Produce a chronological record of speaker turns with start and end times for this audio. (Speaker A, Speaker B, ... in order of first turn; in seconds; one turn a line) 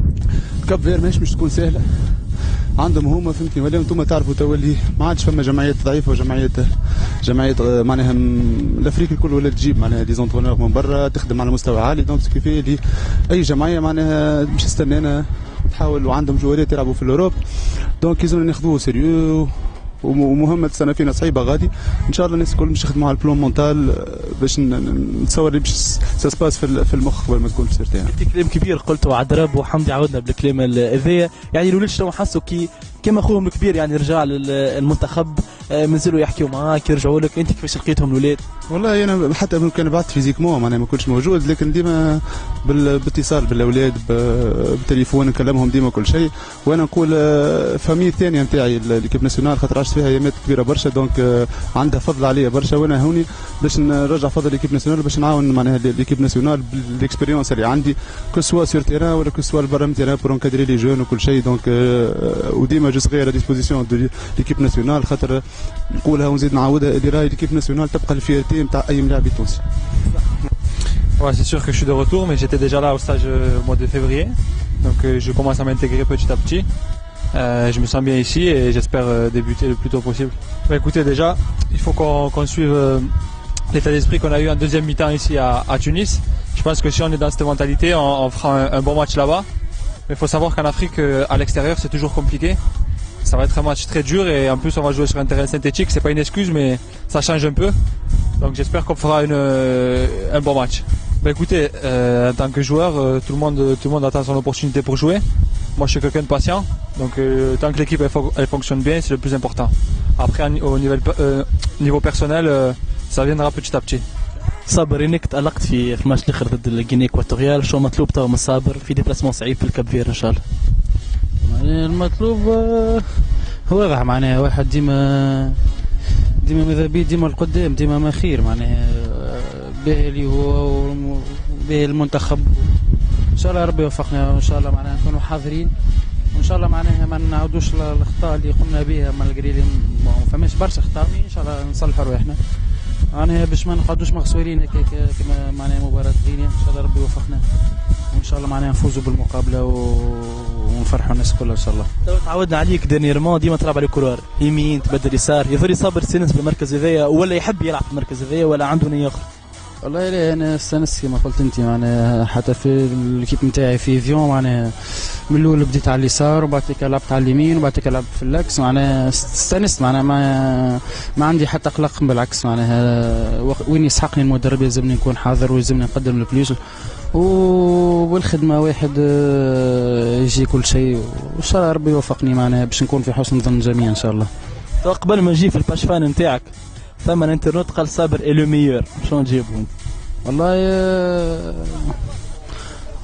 Speaker A: 0.6-28.1
Speaker B: 28.1-38.4
Speaker A: 38.7-69.6
Speaker C: 71.2-76.7
Speaker C: 77.3-83.1
Speaker C: 83.7-89.5
Speaker C: 90.1-92.6
Speaker C: 93.2-97.8
Speaker C: 98.4-105.2
Speaker C: 105.8-114.0
Speaker B: 114.7-120.4
Speaker D: 121.4-123.0
Speaker D: 123.7-125.6
Speaker D: 126.4-132.7
Speaker D: 133.3-135.7
Speaker D: 136.3-142.4
Speaker D: 143.1-147.4
Speaker D: 148.1-151.9
Speaker B: 152.0-159.2
Speaker D: 159.8-176.6
Speaker D: 177.1-184.3
Speaker B: 184.8-189.7
Speaker D: 190.2-191.9